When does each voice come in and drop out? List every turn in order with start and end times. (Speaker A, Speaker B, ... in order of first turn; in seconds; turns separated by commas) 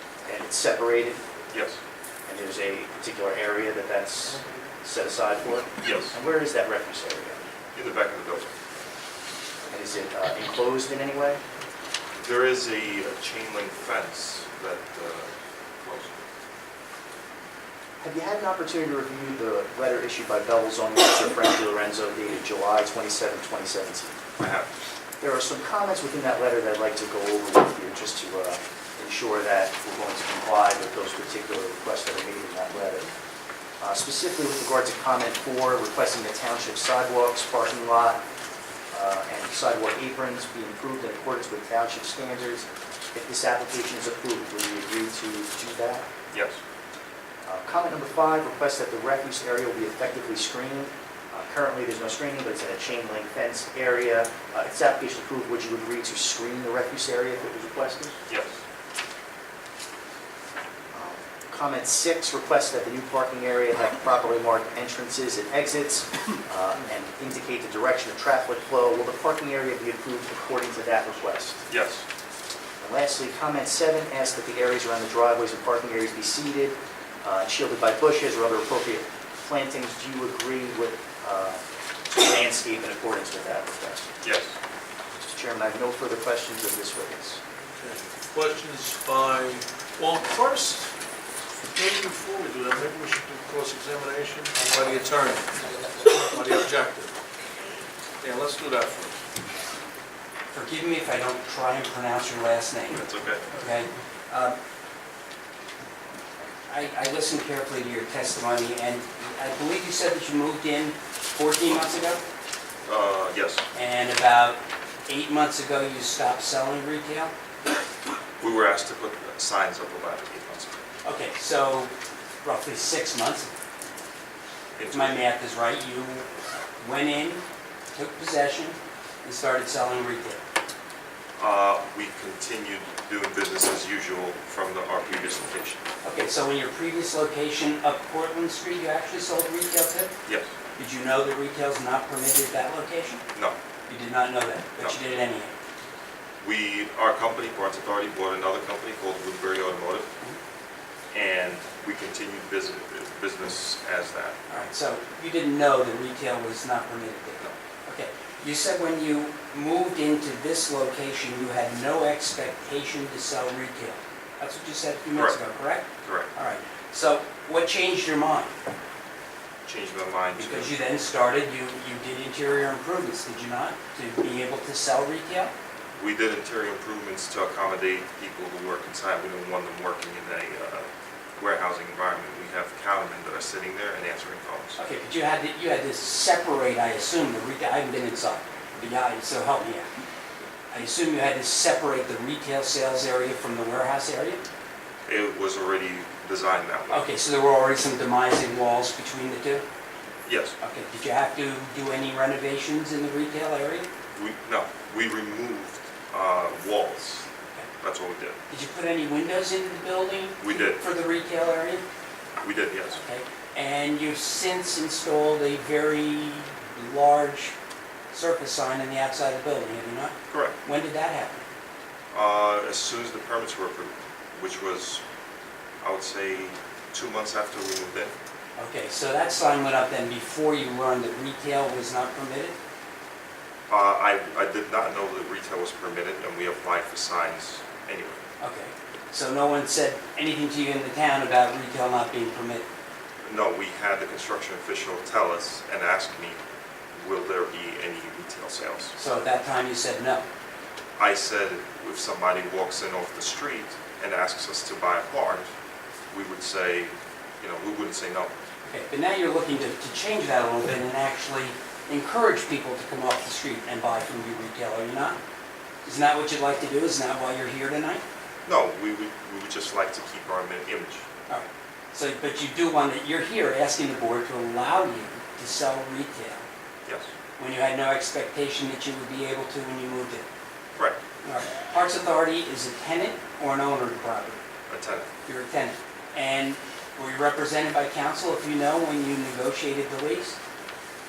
Speaker A: 0.2-1.2, Speaker B: 1.5-1.8, Speaker A: 2.3-7.4, Speaker B: 5.8-6.1, Speaker B: 7.8-8.5, Speaker A: 9.7-11.4, Speaker B: 12.2-16.2, Speaker A: 18.0-24.2, Speaker B: 24.4-24.7, Speaker A: 25.2-33.1, Speaker A: 33.8-38.2, Speaker A: 38.9-46.1, Speaker B: 46.3-46.6, Speaker A: 47.5-58.1, Speaker B: 58.3-58.6, Speaker A: 60.9-71.6, Speaker B: 71.7-72.0, Speaker A: 72.8-84.1, Speaker B: 84.2-84.6, Speaker A: 85.2-87.4, Speaker C: 87.8-90.9, Speaker C: 91.7-97.1, Speaker C: 98.2-99.2, Speaker D: 100.5-104.6, Speaker B: 102.9-103.5, Speaker D: 106.7-112.2, Speaker B: 112.9-113.6, Speaker D: 113.7-117.3, Speaker B: 118.4-120.8, Speaker D: 121.0-121.9, Speaker D: 122.4-123.5, Speaker B: 124.8-125.2, Speaker D: 124.9-126.3, Speaker D: 126.8-127.4, Speaker D: 128.0-130.4, Speaker B: 131.4-135.8, Speaker D: 136.0-140.1, Speaker D: 140.8-143.2, Speaker D: 143.9-145.6, Speaker B: 146.4-150.1, Speaker B: 151.1-154.4, Speaker D: 154.5-168.5, Speaker B: 165.2-165.4, Speaker B: 166.0-166.3, Speaker B: 169.7-170.7, Speaker D: 170.4-175.5, Speaker B: 176.0-184.8, Speaker D: 184.8-189.9, Speaker D: 190.7-194.4, Speaker B: 195.1-197.1, Speaker D: 196.9-199.6, Speaker B: 200.3-200.6, Speaker D: 200.6-203.9, Speaker B: 204.1-207.2, Speaker B: 207.8-208.4, Speaker D: 208.5-211.8, Speaker B: 210.4-210.8, Speaker B: 212.4-213.0, Speaker D: 213.0-217.5, Speaker D: 218.1-221.4, Speaker B: 220.3-220.6, Speaker B: 222.1-225.0, Speaker B: 225.8-228.1, Speaker D: 228.6-232.6, Speaker B: 233.7-238.2, Speaker D: 238.4-242.7, Speaker B: 243.2-246.4, Speaker B: 247.0-248.9, Speaker D: 249.0-250.2, Speaker B: 251.0-255.5, Speaker B: 256.1-258.3, Speaker D: 258.7-265.2, Speaker D: 265.9-268.0, Speaker B: 268.5-271.1, Speaker D: 271.3-276.5, Speaker B: 276.9-277.1, Speaker D: 277.4-280.3, Speaker D: 281.2-284.4, Speaker B: 284.7-285.1, Speaker D: 285.3-290.4